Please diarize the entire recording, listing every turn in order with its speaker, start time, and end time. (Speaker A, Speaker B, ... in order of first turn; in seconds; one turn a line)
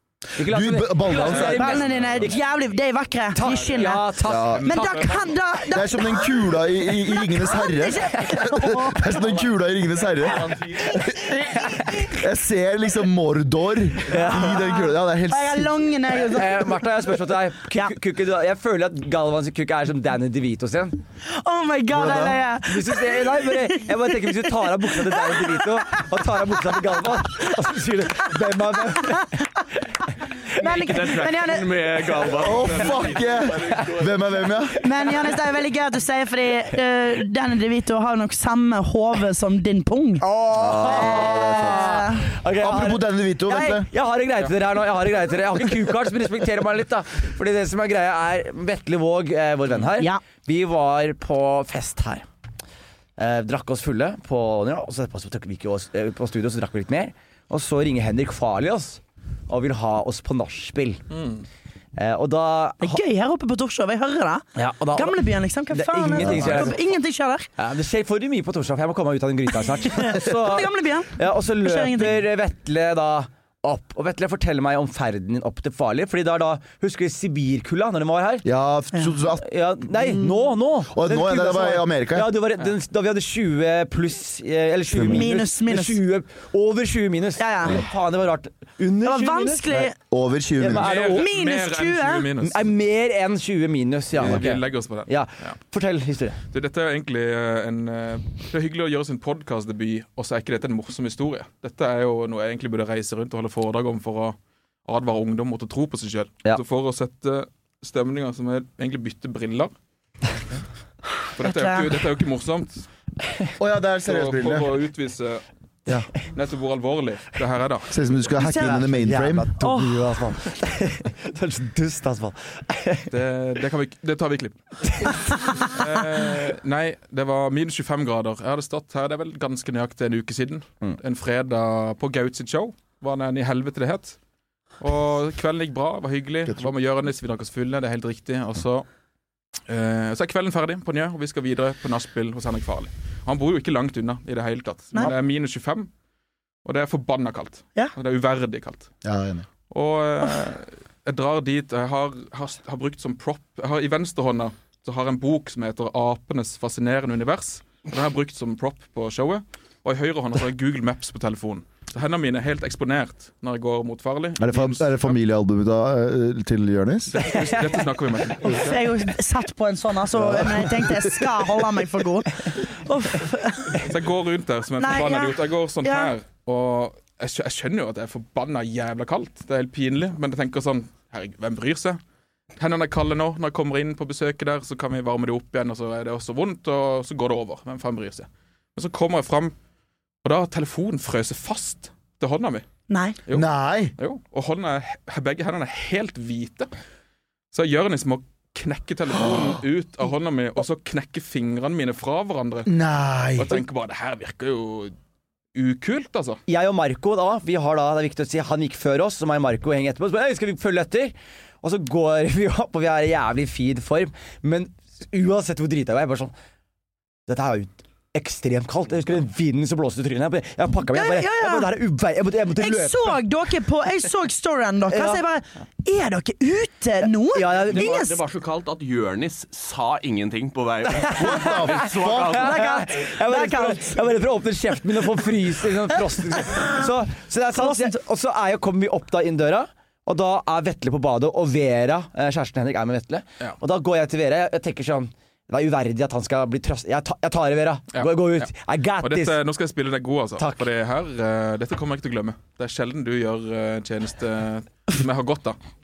Speaker A: 0.4-2.4
Speaker B: 0.4-1.8
Speaker C: 1.3-9.3
Speaker D: 1.3-2.4
Speaker A: 3.3-5.1
Speaker B: 4.2-4.8
Speaker D: 4.3-5.2
Speaker B: 5.7-11.0
Speaker A: 11.5-12.1
Speaker B: 12.1-15.8
Speaker A: 14.1-14.5
Speaker C: 14.2-16.8
Speaker A: 16.3-21.0
Speaker C: 21.3-26.1
Speaker B: 21.9-22.4
Speaker A: 22.6-29.3
Speaker C: 26.9-27.5
Speaker C: 28.9-29.5
Speaker C: 30.6-31.8
Speaker E: 30.6-33.9
Speaker B: 32.4-34.8
Speaker C: 34.8-40.2
Speaker A: 40.2-52.3
Speaker B: 40.5-42.0
Speaker C: 40.8-42.3
Speaker B: 42.6-43.9
Speaker A: 53.2-61.0
Speaker D: 61.1-61.4
Speaker A: 62.0-63.0
Speaker C: 62.8-67.5
Speaker A: 64.6-65.2
Speaker A: 65.7-66.8
Speaker A: 67.6-78.5
Speaker C: 69.9-72.2
Speaker B: 78.4-82.3
Speaker A: 79.4-89.6
Speaker B: 84.9-85.3
Speaker C: 85.0-86.0
Speaker C: 87.4-87.8
Speaker C: 89.0-90.0
Speaker B: 89.7-90.9
Speaker A: 90.6-91.3
Speaker D: 90.8-92.7
Speaker C: 91.1-92.3
Speaker A: 92.4-96.4
Speaker D: 94.1-95.6
Speaker D: 96.5-109.7
Speaker D: 111.4-112.9
Speaker C: 111.4-112.0
Speaker B: 113.6-114.7
Speaker D: 114.0-115.4
Speaker D: 116.3-118.0
Speaker B: 117.9-119.5
Speaker C: 118.4-118.8
Speaker A: 118.4-123.1
Speaker C: 119.6-120.2
Speaker D: 123.1-134.2
Speaker D: 134.8-138.9
Speaker D: 139.7-145.9
Speaker D: 146.6-148.9
Speaker B: 149.0-149.5
Speaker D: 149.7-165.2
Speaker B: 164.4-167.3
Speaker D: 167.1-168.8
Speaker C: 168.5-173.8
Speaker B: 170.2-171.2
Speaker D: 173.8-182.0
Speaker C: 174.8-176.1
Speaker D: 182.6-189.5
Speaker D: 190.2-192.7
Speaker C: 192.9-193.2
Speaker D: 193.3-196.7
Speaker B: 193.3-193.9
Speaker D: 197.5-202.7
Speaker B: 202.7-203.6
Speaker D: 203.4-204.9
Speaker D: 205.5-206.4
Speaker A: 206.5-216.3
Speaker A: 217.3-223.2
Speaker C: 220.9-221.7
Speaker C: 222.6-228.2
Speaker A: 224.9-225.2
Speaker A: 227.3-228.0
Speaker E: 227.6-232.6
Speaker A: 230.9-249.4
Speaker B: 231.2-232.5
Speaker C: 232.4-234.0
Speaker C: 237.6-238.0
Speaker D: 247.9-255.6